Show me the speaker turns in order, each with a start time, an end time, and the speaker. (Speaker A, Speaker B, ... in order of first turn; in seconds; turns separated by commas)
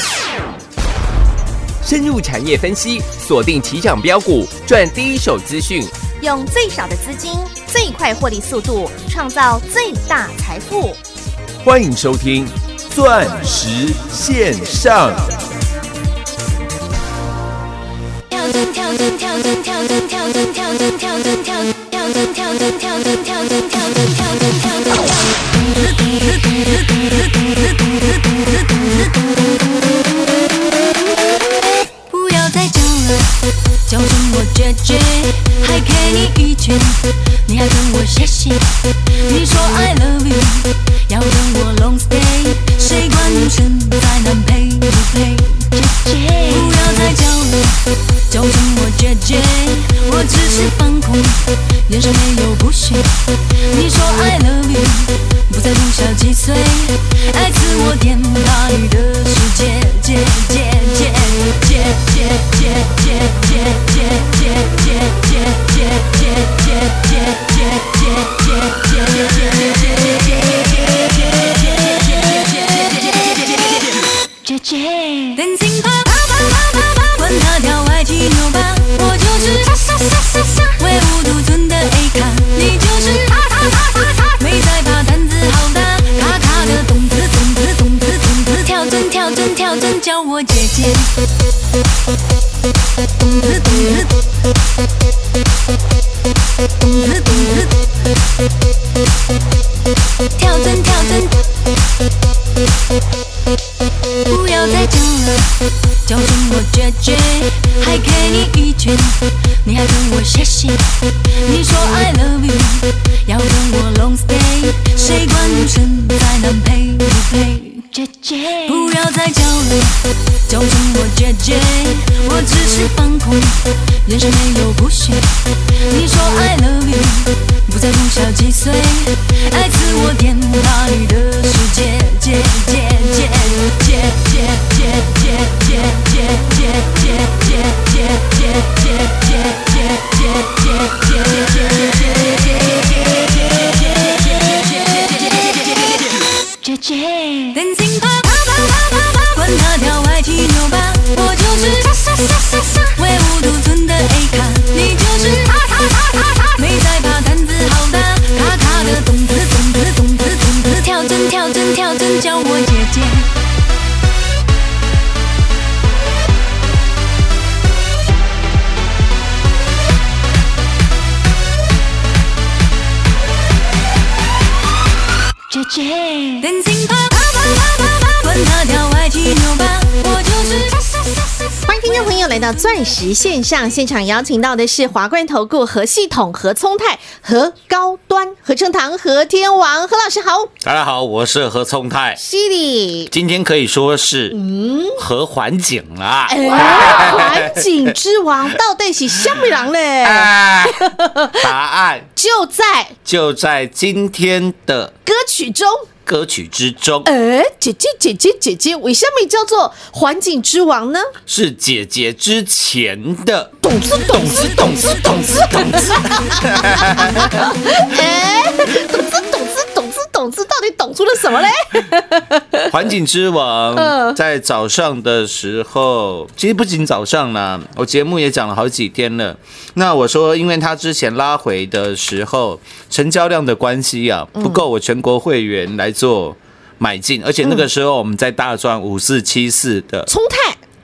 Speaker A: 1.8-5.9, Speaker B: 6.2-11.0, Speaker A: 11.6-15.3, Speaker C: 18.3-29.5, Speaker C: 32.1-70.8, Speaker C: 72.0-73.4, Speaker C: 74.4-91.2, Speaker C: 93.2-94.2, Speaker C: 96.8-97.8, Speaker C: 100.3-101.5, Speaker C: 104.3-142.0, Speaker C: 144.3-145.5, Speaker C: 146.6-163.3, Speaker C: 175.5-181.7, Speaker B: 181.7-190.5, Speaker D: 190.6-192.2, Speaker B: 192.2-193.1, Speaker D: 193.1-194.4, Speaker B: 194.3-195.0, Speaker D: 195.0-197.9, Speaker B: 196.3-201.4, Speaker D: 199.2-199.5, Speaker D: 200.0-202.1, Speaker B: 202.2-202.9, Speaker D: 203.0-204.9, Speaker B: 205.1-205.8, Speaker D: 206.1-207.1, Speaker B: 207.0-211.1, Speaker D: 211.3-217.6, Speaker B: 213.6-222.7, Speaker D: 222.7-240.1, Speaker B: 223.7-224.2, Speaker B: 234.3-234.6, Speaker B: 240.1-240.6